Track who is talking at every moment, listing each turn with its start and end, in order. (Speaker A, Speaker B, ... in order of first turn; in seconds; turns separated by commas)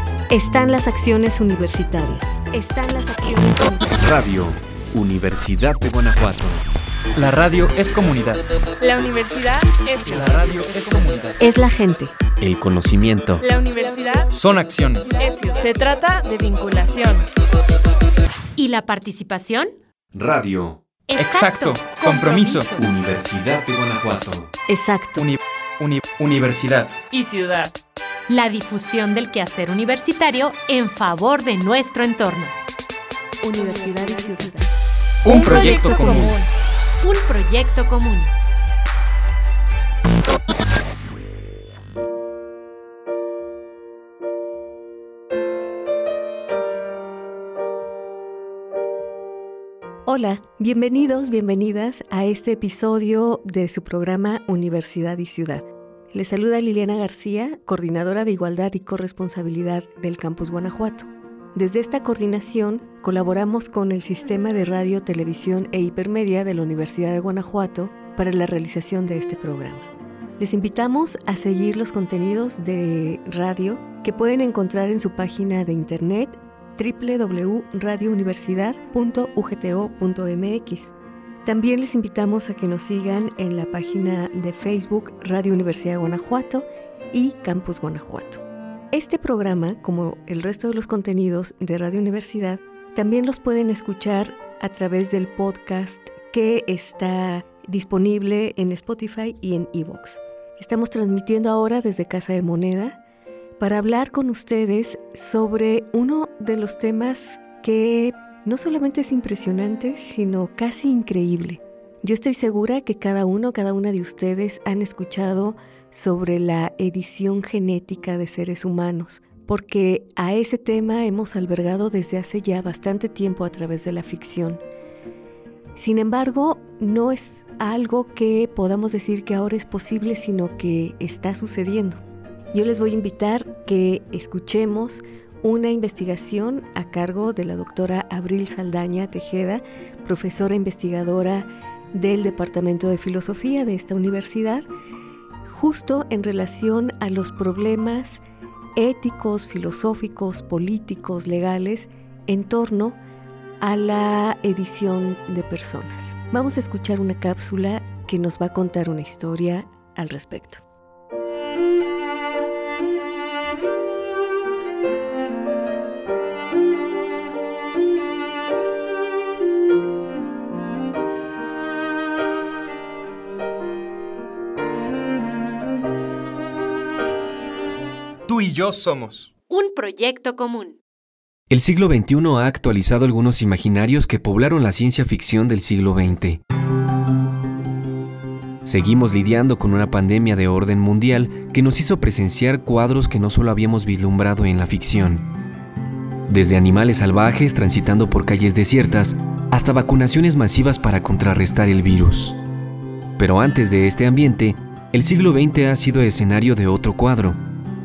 Speaker A: 0.3-4.0, Speaker B: 4.0-6.6, Speaker C: 7.2-8.5, Speaker D: 8.8-11.1, Speaker C: 10.1-11.4, Speaker A: 11.4-12.2, Speaker B: 12.4-13.4, Speaker D: 13.4-14.3, Speaker C: 14.3-15.2, Speaker D: 15.1-17.3, Speaker E: 18.6-19.8, Speaker B: 20.1-20.8, Speaker E: 21.1-22.9, Speaker C: 21.1-22.7, Speaker B: 22.8-24.5, Speaker A: 24.7-25.3, Speaker C: 25.2-27.0, Speaker D: 27.1-27.7, Speaker E: 28.3-32.5, Speaker A: 33.4-34.7, Speaker C: 35.2-36.4, Speaker D: 35.3-36.5, Speaker E: 35.4-36.2, Speaker E: 37.0-38.3, Speaker A: 50.1-80.9, Speaker A: 81.5-103.0, Speaker A: 103.6-124.6, Speaker A: 125.8-144.7, Speaker A: 145.4-148.2, Speaker A: 148.8-153.0, Speaker A: 153.6-160.6, Speaker C: 178.3-179.3, Speaker E: 179.5-180.8, Speaker B: 181.5-186.4, Speaker B: 188.7-195.3, Speaker B: 196.3-202.4, Speaker B: 203.2-207.4